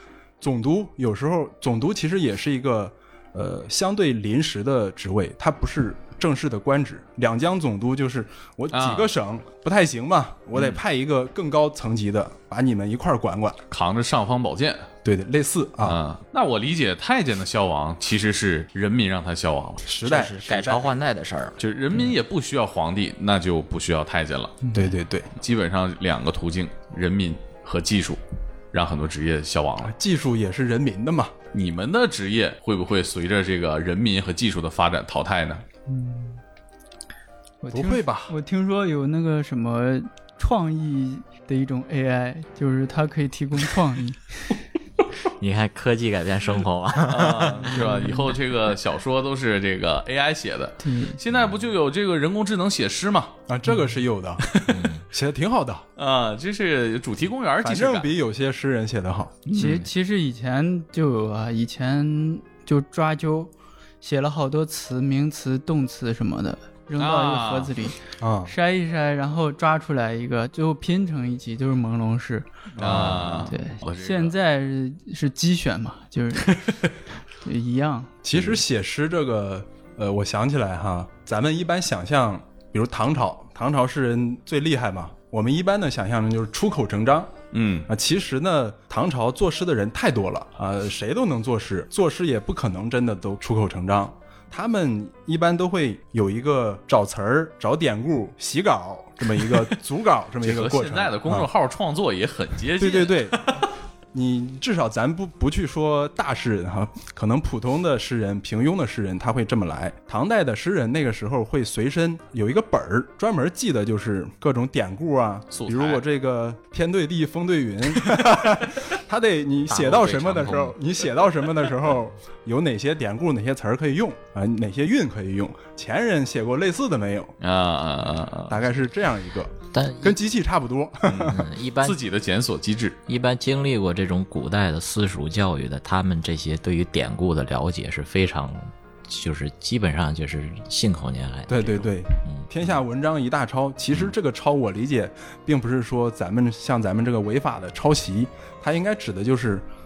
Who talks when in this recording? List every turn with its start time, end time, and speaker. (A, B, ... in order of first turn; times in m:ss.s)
0:00.4-0:13.6 A
0:08.7-0:09.1 B
0:10.6-0:10.8 B
0:13.7-0:14.9 B
0:15.0-0:16.0 A
0:15.8-0:19.8 B
0:19.8-0:21.0 A
0:20.0-0:21.6 C
0:21.6-0:24.7 B
0:24.7-0:25.3 A
0:25.4-0:28.2 B
0:28.7-0:29.9 B
0:29.8-0:31.3 A
0:31.5-0:35.6 B
0:35.9-0:36.4 D
0:37.6-0:44.5 D
0:37.7-0:38.3 A
0:45.3-0:47.9 C
0:47.0-0:53.4 B
0:47.7-0:48.3 D
0:50.8-0:51.2 D
0:53.5-0:54.6 A
0:54.4-0:54.9 B
0:54.7-0:55.0 C
0:55.1-0:55.9 A
0:56.0-0:58.1 B
0:57.6-0:59.4 A
0:59.4-0:59.9 B
0:59.5-1:16.7 D
1:07.0-1:07.8 B
1:08.2-1:08.5 A
1:12.7-1:13.5 A
1:12.8-1:14.3 B
1:16.5-1:16.9 B
1:17.4-1:18.1 D
1:18.2-1:27.3 A
1:18.3-1:18.6 B
1:27.5-1:27.9 B
1:27.9-1:41.5 A
1:39.4-1:39.7 B
1:40.4-1:43.7 B
1:42.8-1:43.4 A
1:44.1-2:07.3 A
1:55.5-1:56.0 B
1:59.7-2:00.8 C
2:07.4-2:08.6 B
2:08.5-2:11.5 A
2:09.7-2:10.2 C
2:11.0-2:13.0 B
2:11.2-2:12.0 C
2:13.1-2:22.5 C
2:21.5-2:29.7 A